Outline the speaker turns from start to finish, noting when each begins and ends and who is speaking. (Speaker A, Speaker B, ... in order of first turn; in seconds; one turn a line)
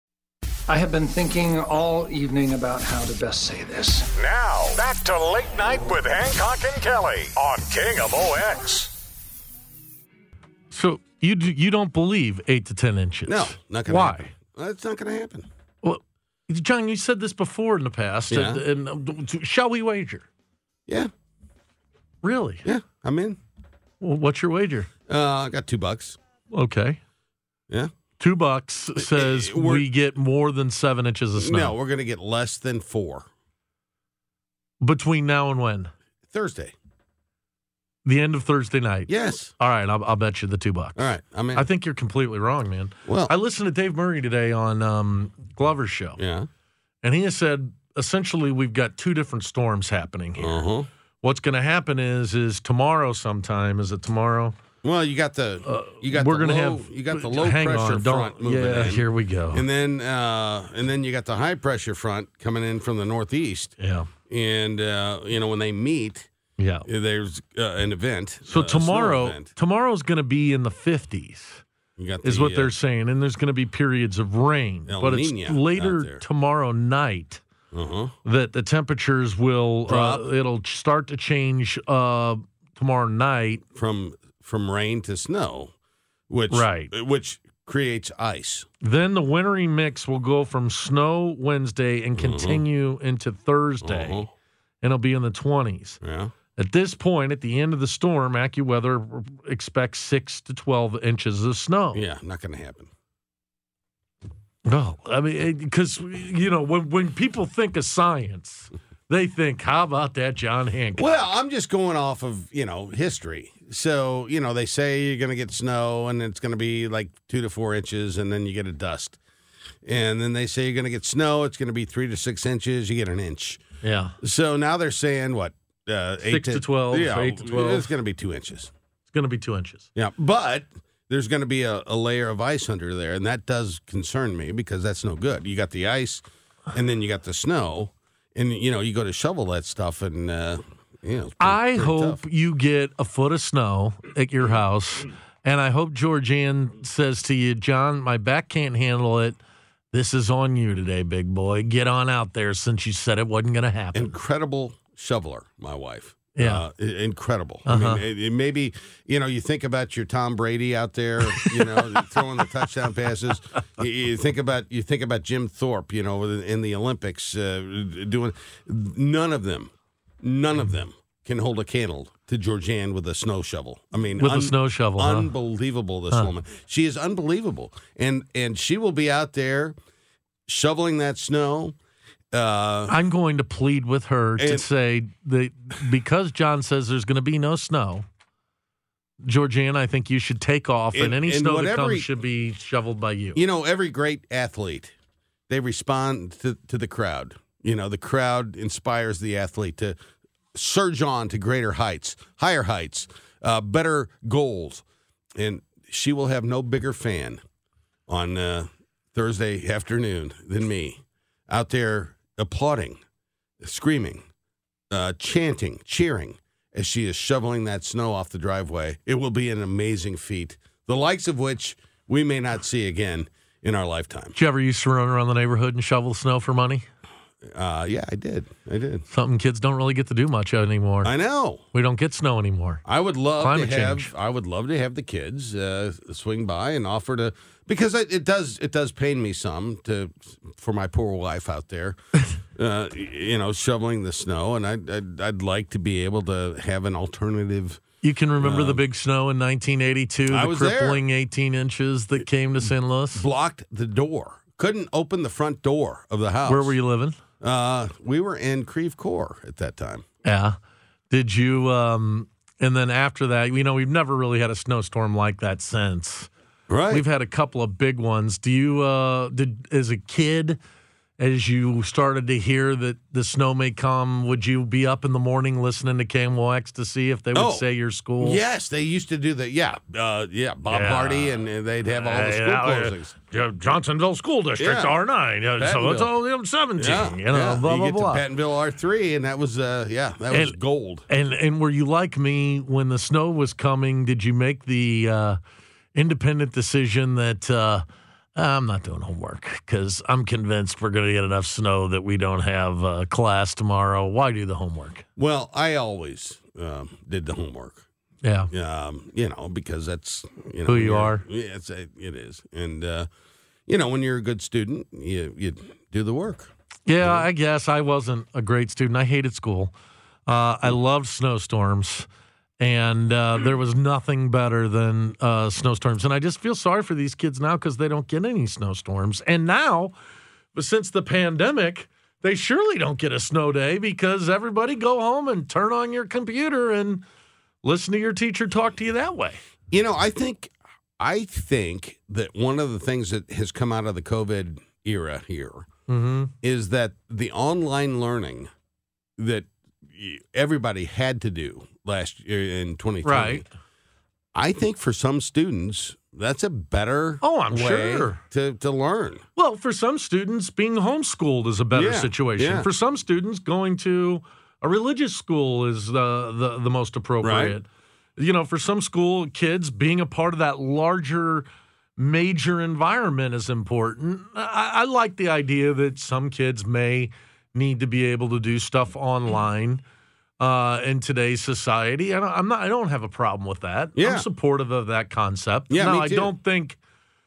Speaker A: 0.7-4.1
Speaker B: 4.1-8.9
Speaker C: 10.7-14.3
Speaker D: 13.2-15.5
Speaker C: 15.8-20.2
Speaker D: 18.3-18.6
Speaker C: 22.2-22.6
Speaker D: 22.6-23.4
Speaker C: 24.0-24.9
Speaker D: 25.1-26.2
Speaker C: 26.5-27.0
Speaker C: 28.2-31.7
Speaker D: 29.0-29.8
Speaker D: 31.4-33.3
Speaker C: 34.8-35.9
Speaker D: 36.3-36.7
Speaker C: 38.0-46.2
Speaker D: 39.1-39.5
Speaker D: 41.0-41.6
Speaker D: 43.1-43.3
Speaker D: 46.2-46.5
Speaker C: 47.0-50.6
Speaker D: 50.4-50.9
Speaker C: 51.2-54.5
Speaker D: 54.8-63.7
Speaker C: 55.6-59.6
Speaker C: 63.8-64.1
Speaker D: 64.3-66.3
Speaker C: 66.6-66.8
Speaker D: 66.8-69.5
Speaker C: 68.5-71.6
Speaker D: 72.0-72.7
Speaker C: 72.2-77.4
Speaker D: 74.9-76.2
Speaker D: 77.7-78.1
Speaker C: 78.2-83.6
Speaker D: 79.9-80.2
Speaker D: 83.7-85.7
Speaker D: 86.3-88.7
Speaker C: 86.5-86.9
Speaker C: 88.8-94.2
Speaker D: 92.2-92.6
Speaker D: 93.8-94.3
Speaker C: 94.8-96.0
Speaker D: 96.0-96.3
Speaker C: 96.5-102.0
Speaker D: 101.9-102.9
Speaker C: 104.7-111.2
Speaker D: 111.0-119.2
Speaker D: 119.8-123.6
Speaker C: 123.8-124.1
Speaker D: 124.2-128.7
Speaker C: 126.2-127.9
Speaker C: 129.1-129.9
Speaker D: 129.9-142.2
Speaker C: 141.4-149.4
Speaker C: 149.9-154.1
Speaker D: 153.9-179.7
Speaker C: 156.4-156.6
Speaker C: 157.7-158.0
Speaker C: 161.2-162.2
Speaker C: 174.2-175.3
Speaker D: 180.5-181.7
Speaker D: 182.3-182.9
Speaker C: 182.9-188.0
Speaker D: 184.4-184.7
Speaker C: 189.2-193.4
Speaker D: 190.9-192.1
Speaker D: 193.3-194.9
Speaker D: 195.5-200.0
Speaker D: 200.5-204.8
Speaker D: 205.3-207.4
Speaker D: 208.1-213.0
Speaker D: 213.6-214.2
Speaker D: 214.9-224.3
Speaker C: 224.3-226.8
Speaker D: 227.5-229.0
Speaker C: 229.1-231.1
Speaker D: 231.0-231.6
Speaker C: 231.7-232.8
Speaker D: 232.8-242.0
Speaker C: 233.4-234.1
Speaker D: 242.6-247.8
Speaker C: 248.0-253.2
Speaker D: 248.4-248.8
Speaker D: 250.3-251.0
Speaker D: 253.1-256.8
Speaker C: 256.4-257.2
Speaker D: 257.4-260.0
Speaker C: 260.2-260.6
Speaker C: 261.1-266.3
Speaker D: 266.7-267.0
Speaker C: 266.9-270.6
Speaker C: 271.2-278.4
Speaker D: 277.3-277.6
Speaker D: 278.2-283.1
Speaker C: 280.7-281.4
Speaker C: 281.9-288.2
Speaker D: 284.6-284.9
Speaker D: 285.6-286.1
Speaker D: 286.8-291.1
Speaker C: 290.3-290.6
Speaker C: 291.1-295.4
Speaker C: 295.9-305.0
Speaker D: 305.2-307.8
Speaker C: 308.2-308.5
Speaker D: 308.5-313.1
Speaker C: 310.6-311.2
Speaker D: 313.7-317.2
Speaker C: 316.9-319.7
Speaker C: 320.3-322.1
Speaker C: 322.6-329.9
Speaker C: 330.5-337.0
Speaker C: 337.6-339.4
Speaker D: 339.7-345.7
Speaker C: 345.9-346.3
Speaker D: 346.4-348.5
Speaker D: 349.2-353.4
Speaker C: 353.0-353.4
Speaker D: 354.3-359.2
Speaker C: 357.2-358.2
Speaker C: 359.4-367.6
Speaker D: 361.7-362.7
Speaker D: 367.2-367.5
Speaker C: 368.2-379.8
Speaker C: 380.4-386.8
Speaker D: 384.0-384.3
Speaker D: 385.7-386.3